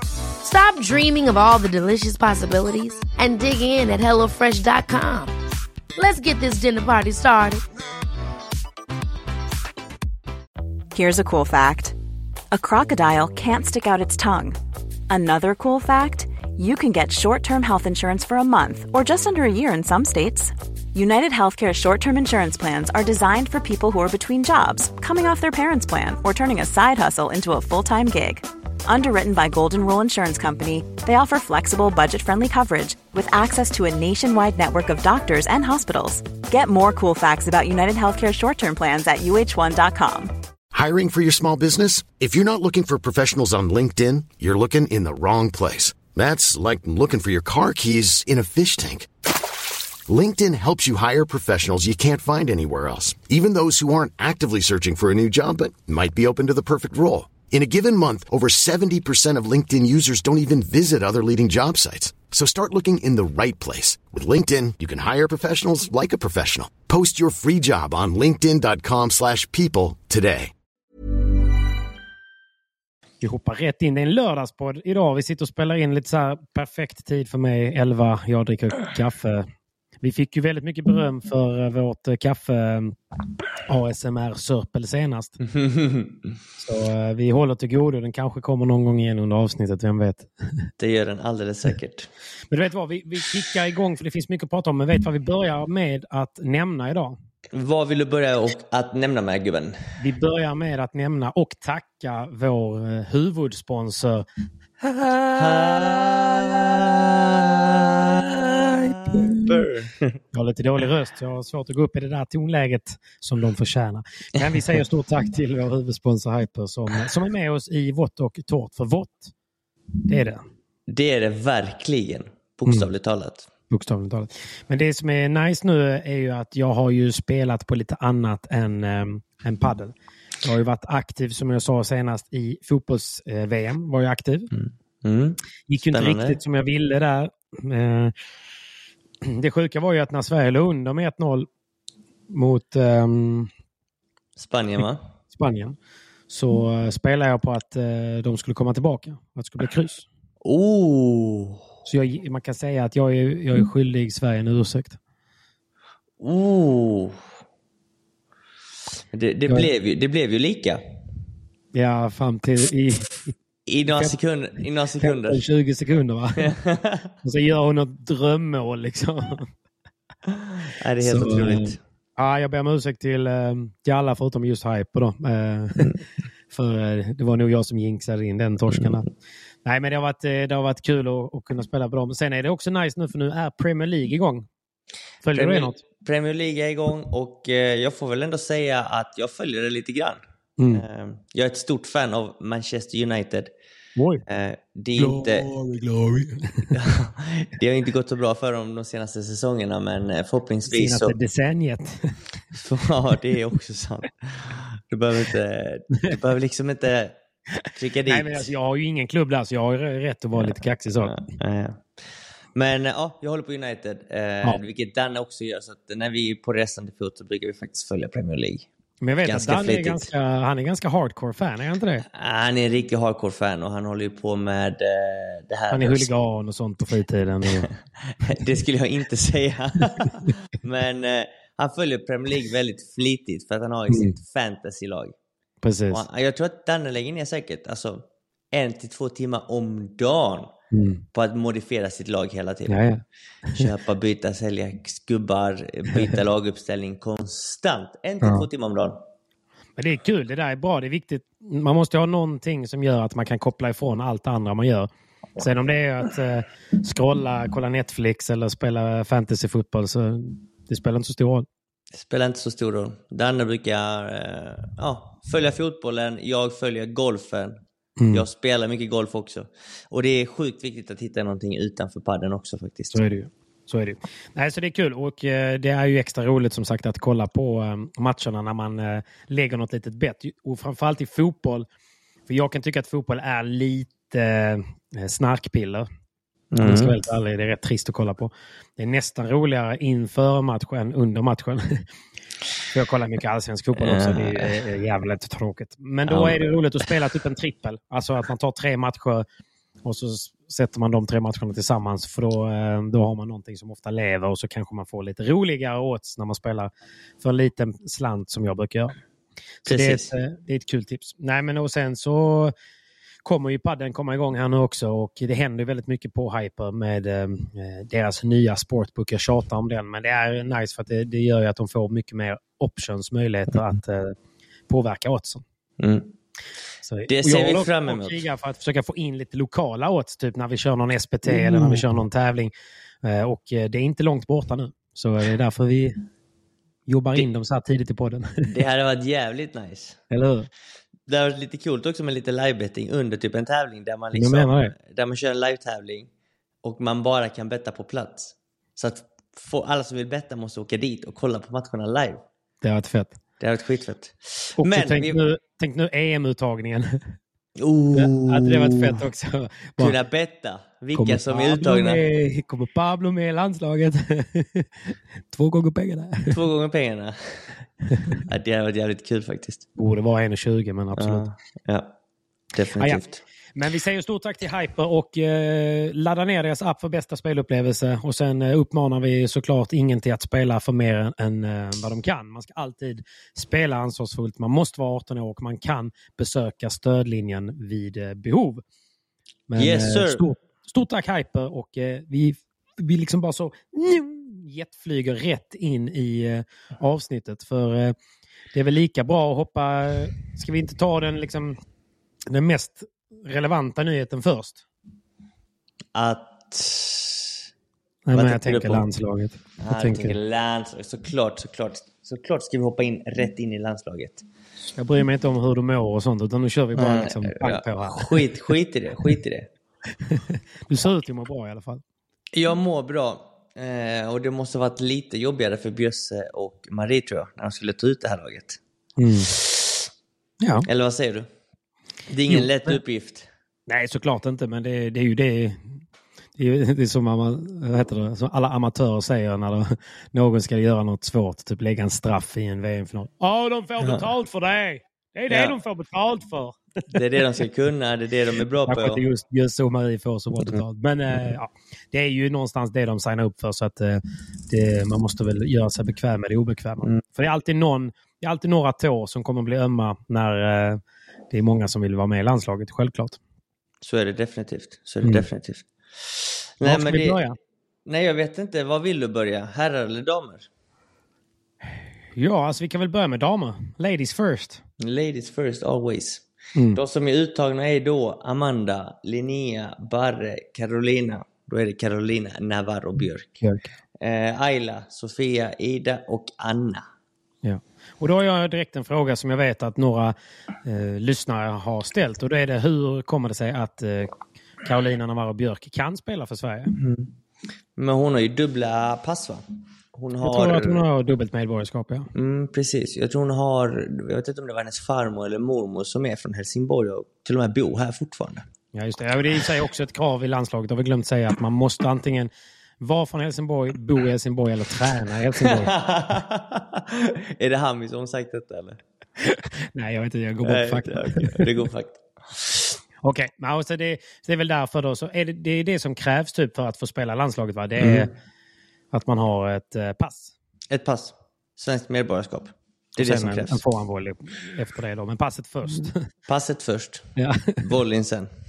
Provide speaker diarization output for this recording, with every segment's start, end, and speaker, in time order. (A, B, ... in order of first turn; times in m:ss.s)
0:00.4-0:05.3 A
0:06.0-0:07.6 A
0:10.9-0:12.0 B
0:12.5-0:14.6 B
0:15.1-0:40.3 B
0:40.7-0:49.1 C
0:50.1-1:10.5 C
1:13.2-1:19.5 D
1:20.0-1:23.0 D
1:23.7-1:25.4 D
1:25.5-1:26.1 E
1:26.6-1:30.7 D
1:30.8-1:32.1 E
1:32.5-1:37.2 D
1:37.5-1:39.8 E
1:40.0-1:44.2 D
1:44.8-1:46.3 D
1:45.3-1:50.2 E
1:48.7-1:49.5 D
1:50.3-1:59.3 D
2:00.1-2:00.4 D
2:00.9-2:03.5 E
2:03.7-2:14.5 D
2:14.5-2:15.4 E
2:15.7-2:18.1 D
2:15.9-2:16.4 E
2:19.2-2:21.5 D
2:22.3-2:23.5 D
2:24.4-2:25.0 E
2:25.3-2:25.8 D
2:26.3-2:30.1 D
2:30.4-2:31.6 E
2:31.8-2:35.0 D
2:36.2-2:37.2 E
2:39.1-2:40.8 E
2:41.7-2:43.4 D
2:43.7-2:45.4 E
2:43.9-2:44.2 D
2:45.0-2:46.5 D
2:46.4-2:47.1 E
2:47.2-2:49.5 D
2:50.3-2:51.8 E
2:51.0-2:56.0 D
2:56.5-2:59.1 D
2:59.6-3:04.5 D
3:05.2-3:05.8 D
3:05.3-3:10.2 E
3:10.6-3:10.8 D
3:10.7-3:13.5 E
3:14.0-3:14.2 D
3:14.2-3:15.5 E
3:15.0-3:16.7 D
3:16.7-3:21.2 E
3:20.7-3:22.2 D
3:22.5-3:27.2 E
3:27.7-3:28.5 E
3:28.1-3:31.1 D
3:31.0-3:38.7 E
3:39.0-3:42.0 D
3:39.2-3:40.1 E
3:42.1-3:46.1 E
3:45.7-3:47.7 D
3:47.6-3:55.2 E
3:53.9-3:54.2 D
3:55.6-3:56.0 D
3:55.9-4:00.5 E
4:00.7-4:01.0 D
4:01.1-4:02.8 E
4:02.7-4:03.7 D
4:03.5-4:09.0 E
4:09.8-4:21.5 D
4:21.9-4:27.6 E
4:28.0-4:28.2 D
4:28.1-4:33.0 E
4:32.9-4:41.7 D
4:42.3-4:45.9 D
4:46.5-4:47.0 E
4:46.6-4:51.8 D
4:52.7-4:59.2 D
4:53.8-4:54.6 E
4:56.0-4:56.4 E
4:59.8-5:09.0 D
5:09.6-5:10.1 E
5:09.6-5:12.5 D
5:13.2-5:24.1 D
5:24.7-5:25.4 D
5:25.8-5:26.1 E
5:26.8-5:32.5 D
5:27.1-5:28.2 E
5:31.2-5:31.9 E
5:33.0-5:36.0 D
5:36.9-5:38.5 D
5:38.5-5:40.0 E
5:40.1-5:40.5 D
5:41.1-5:46.1 E
5:44.1-5:44.7 D
5:46.6-5:52.2 E
5:52.6-5:53.2 D
5:53.4-5:55.2 E
5:54.6-5:57.2 D
5:57.6-5:59.0 E
5:57.9-6:00.0 D
5:59.8-6:02.0 E
6:01.0-6:06.4 D
6:06.3-6:09.6 E
6:09.8-6:11.2 D
6:11.0-6:12.0 E
6:12.5-6:13.2 E
6:12.8-6:13.0 D
6:13.5-6:28.6 D
6:29.5-6:38.0 D
6:29.6-6:30.2 E
6:38.5-6:41.6 D
6:42.3-6:44.6 D
6:46.0-6:47.4 E
6:48.0-6:50.2 D
6:48.1-6:48.9 E
6:49.6-6:54.2 E
6:54.8-6:58.1 D
6:56.8-6:59.5 E
7:00.0-7:01.8 D
7:02.3-7:08.6 E
7:09.0-7:09.3 D
7:09.3-7:09.8 E
7:10.4-7:10.7 D
7:10.6-7:11.3 E
7:12.1-7:13.3 E
7:12.3-7:12.8 D
7:13.7-7:15.8 D
7:16.4-7:27.0 D
7:25.3-7:25.5 E
7:26.9-7:29.0 E
7:28.7-7:40.8 D
7:41.3-7:43.2 D
7:43.8-7:47.2 E
7:46.6-7:47.4 D
7:47.9-7:50.5 E
7:52.2-7:54.6 D
7:54.8-8:03.3 E
8:03.4-8:03.7 D
8:04.0-8:06.8 E
8:07.4-8:14.1 D
8:14.6-8:16.7 D
8:16.7-8:17.1 E
8:17.8-8:20.8 E
8:20.2-8:22.1 D
8:22.1-8:28.4 E
8:28.7-8:35.7 D
8:35.4-8:38.8 E
8:39.2-8:41.5 D
8:40.4-8:42.7 E
8:43.0-8:48.1 D
8:47.8-8:48.1 E
8:48.9-8:50.3 D
8:50.7-8:53.6 E
8:53.0-8:56.1 D
8:56.3-8:58.3 E
8:57.2-8:57.6 D